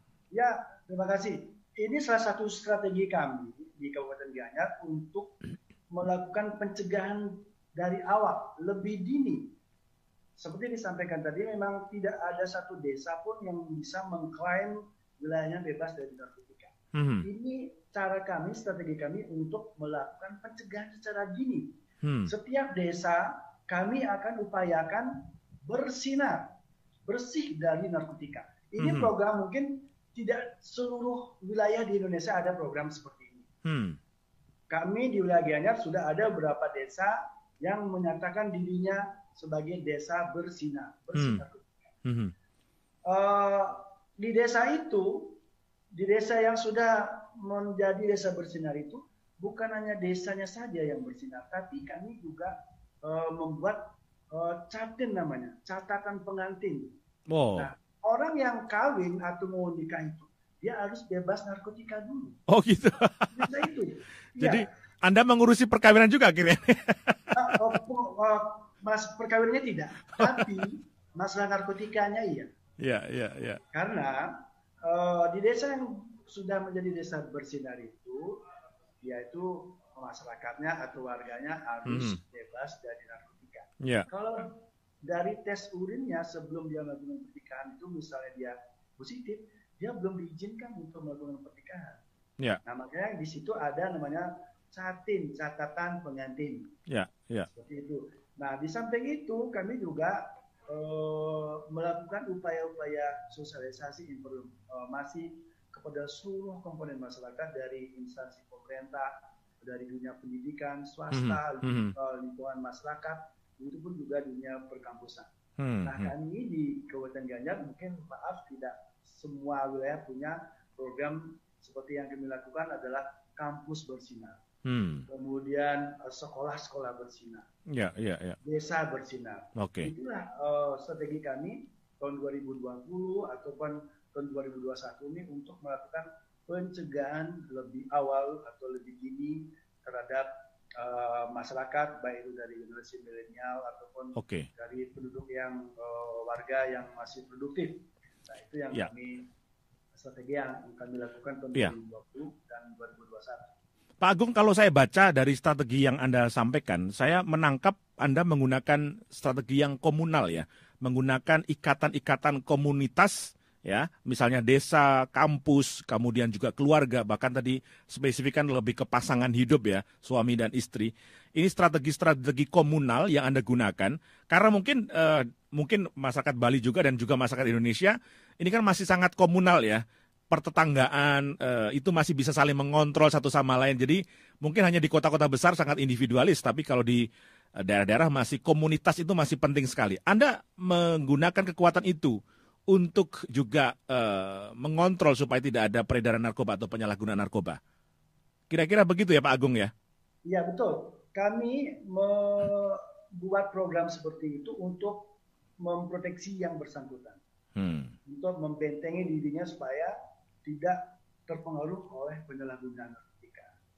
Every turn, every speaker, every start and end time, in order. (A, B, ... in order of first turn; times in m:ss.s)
0:00.3-0:05.4 A
0:05.9-0:09.5 A
0:10.4-0:26.5 A
0:16.9-0:17.3 B
0:22.0-0:22.3 B
0:27.1-0:33.5 A
0:28.8-0:29.1 B
0:33.6-0:34.0 B
0:34.7-0:41.9 A
0:41.1-0:41.4 B
0:42.0-0:42.3 B
0:43.1-0:45.4 A
0:46.0-0:56.9 A
0:57.3-0:57.7 B
0:57.6-1:02.4 A
1:02.5-1:03.5 B
1:03.3-1:04.7 A
1:04.4-1:07.6 B
1:07.3-1:12.5 A
1:10.2-1:10.6 B
1:12.8-1:13.6 B
1:13.7-1:18.4 A
1:19.0-1:32.0 A
1:21.8-1:22.2 B
1:23.8-1:24.1 B
1:32.6-1:36.8 A
1:36.9-1:37.5 B
1:37.5-1:55.3 A
1:51.1-1:51.9 B
1:55.6-1:56.1 B
1:55.8-2:04.4 A
2:04.6-2:05.1 B
2:05.1-2:07.5 A
2:07.7-2:08.4 B
2:08.4-2:29.3 A
2:09.6-2:09.9 B
2:24.2-2:24.5 B
2:30.0-2:33.5 A
2:34.0-3:07.0 B
3:07.6-3:12.2 B
3:12.7-3:17.6 B
3:18.5-3:19.7 B
3:20.3-3:27.2 A
3:27.6-3:27.9 B
3:28.1-3:33.5 A